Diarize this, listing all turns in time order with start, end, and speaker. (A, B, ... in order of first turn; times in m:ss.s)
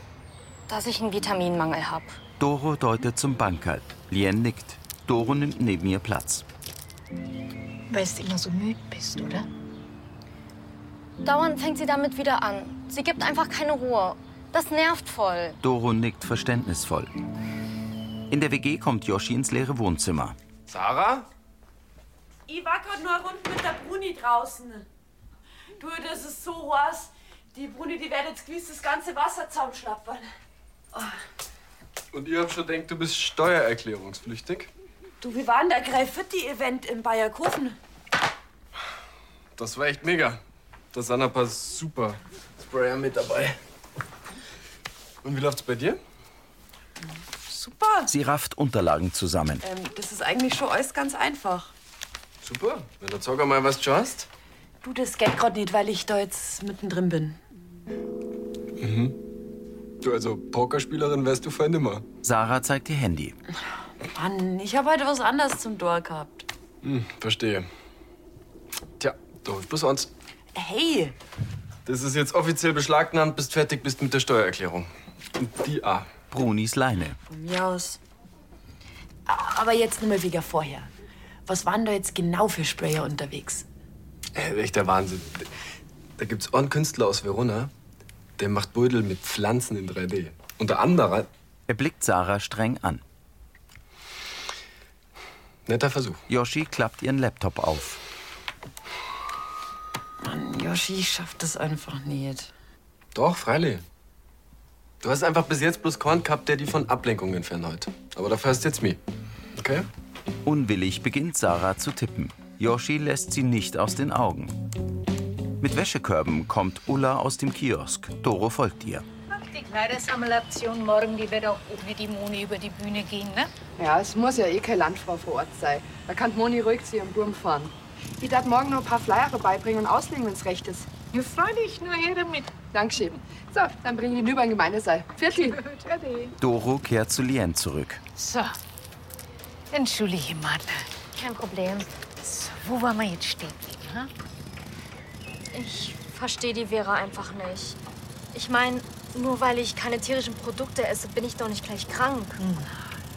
0:00.7-0:02.2 A
0:02.4-0:06.4 B
0:07.9-0:09.5 C
0:11.2-0:15.6 A
0:15.6-0:17.1 B
0:18.3-0:20.4 B
0:20.8-0:21.2 D
0:22.5-0:24.9 E
0:25.8-0:30.3 E
0:32.1-0:34.7 D
0:35.2-0:37.8 E
0:39.6-0:40.4 D
0:40.9-0:43.6 D
0:45.2-0:46.0 D
0:47.5-0:48.1 E
0:48.1-0:49.6 B
0:49.6-0:51.7 E
0:52.4-0:54.3 D
0:54.8-0:57.4 E
0:58.8-0:59.2 D
1:00.0-1:02.0 D
1:02.2-1:03.4 B
1:04.0-1:06.5 E
1:06.8-1:07.7 D
1:09.0-1:10.1 D
1:10.5-1:11.2 E
1:11.8-1:16.1 D
1:16.3-1:17.2 B
1:17.2-1:18.0 E
1:19.2-1:20.9 E
1:21.4-1:23.6 E
1:24.3-1:25.5 D
1:26.2-1:27.7 D
1:28.4-1:31.3 D
1:31.7-1:33.0 B
1:35.6-1:36.2 D
1:36.3-1:38.0 B
1:40.2-1:42.5 E
1:43.1-1:43.8 D
1:45.0-1:49.0 D
1:49.6-1:49.9 D
1:50.4-1:54.5 B
1:55.6-1:59.0 B
1:59.3-2:03.5 C
2:03.8-2:10.9 F
2:11.1-2:12.5 C
2:12.7-2:15.5 F
2:15.4-2:16.3 C
2:16.4-2:18.0 B
2:18.2-2:18.6 C
2:19.7-2:21.0 C
2:21.1-2:21.9 A
2:22.2-2:24.1 C
2:25.5-2:27.8 A
2:28.3-2:32.4 A
2:32.4-2:33.0 C